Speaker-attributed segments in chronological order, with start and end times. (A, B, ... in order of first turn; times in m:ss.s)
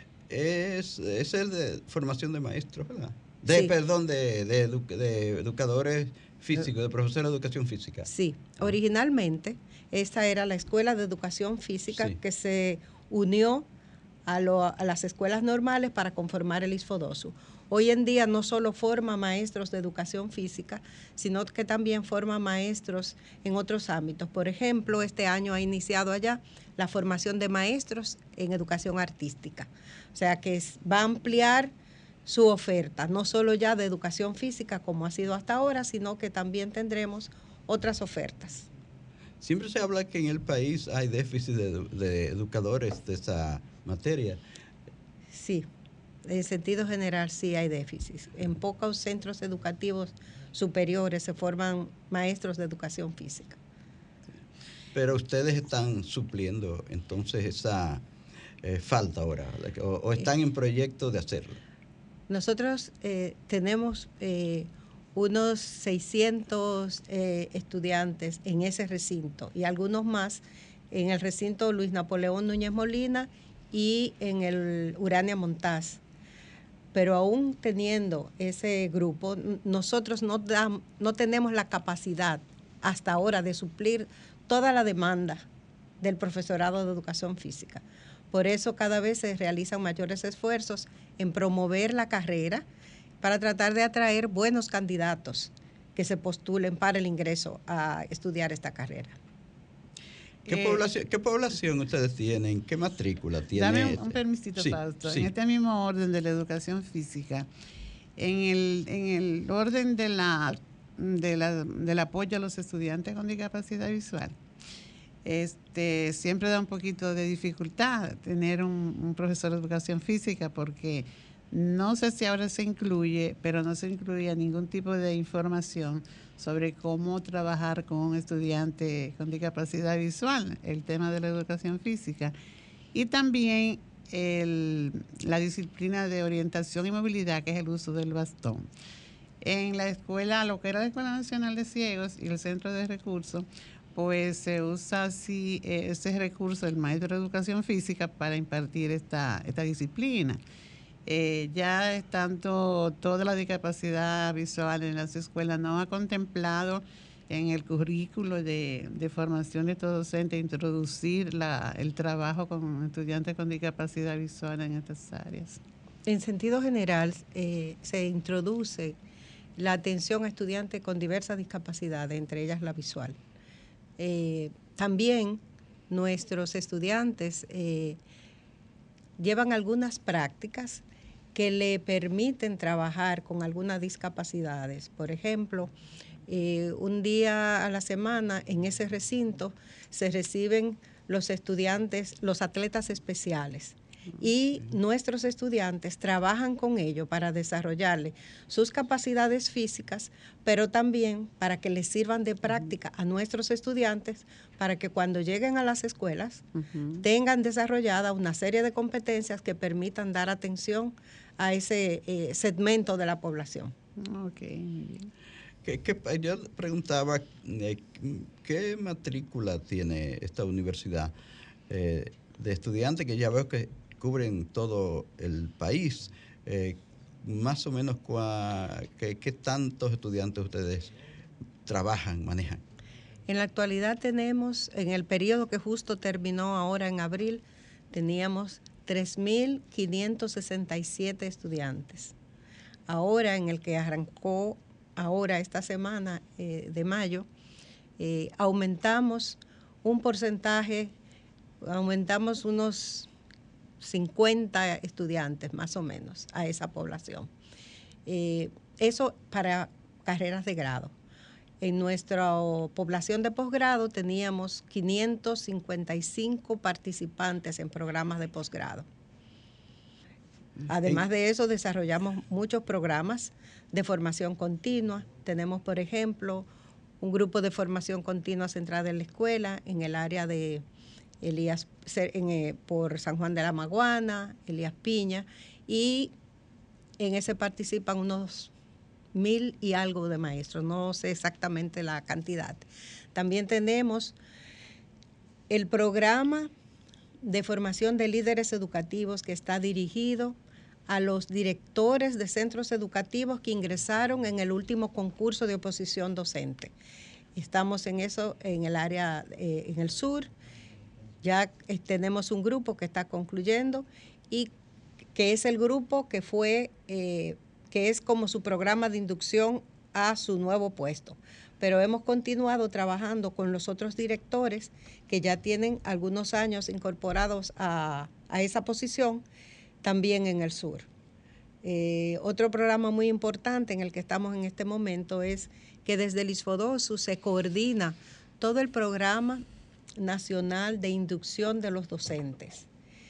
0:00.3-0:08.1 A
0:03.5-0:03.7 B
0:08.1-0:13.7 B
0:14.3-0:31.7 B
0:32.3-0:38.7 B
0:39.4-0:44.4 A
0:45.3-0:45.7 B
0:46.2-0:53.6 B
0:54.9-0:58.0 A
0:58.6-1:01.6 A
1:02.3-1:16.0 B
1:16.9-1:25.5 B
1:26.0-1:32.6 B
1:33.2-1:39.2 B
1:40.5-1:45.3 A
1:40.5-1:40.8 C
1:43.5-1:47.5 C
1:48.2-1:54.4 C
1:55.2-2:12.4 C
2:12.9-2:18.7 C
2:19.4-2:30.4 C
2:31.1-2:45.6 C
2:46.1-2:49.0 B
2:49.6-2:53.2 B
2:54.0-2:58.0 B
2:59.2-3:00.8 B
3:01.4-3:05.7 B
3:06.3-3:26.4 B
3:26.6-3:27.0 C
3:27.0-3:33.7 B
3:34.0-3:35.1 C
3:35.6-3:41.1 A
3:41.7-3:50.9 A
3:51.7-3:52.6 A
3:53.3-4:02.1 B
4:02.9-4:07.3 B
4:08.0-4:10.9 B
4:11.6-4:13.1 B
4:13.8-4:17.3 B
4:18.1-4:20.9 B
4:21.6-4:28.9 B
4:30.7-4:36.5 B
4:37.0-4:40.6 B
4:41.2-4:46.1 B
4:47.0-4:48.5 B
4:49.1-4:54.2 B
4:55.5-4:56.5 B
4:57.2-5:00.4 B
5:00.9-5:06.7 B
5:07.4-5:10.3 B
5:11.2-5:14.5 B
5:15.2-5:29.2 B
5:29.8-5:30.9 B
5:31.6-5:39.4 B
5:40.0-5:42.7 B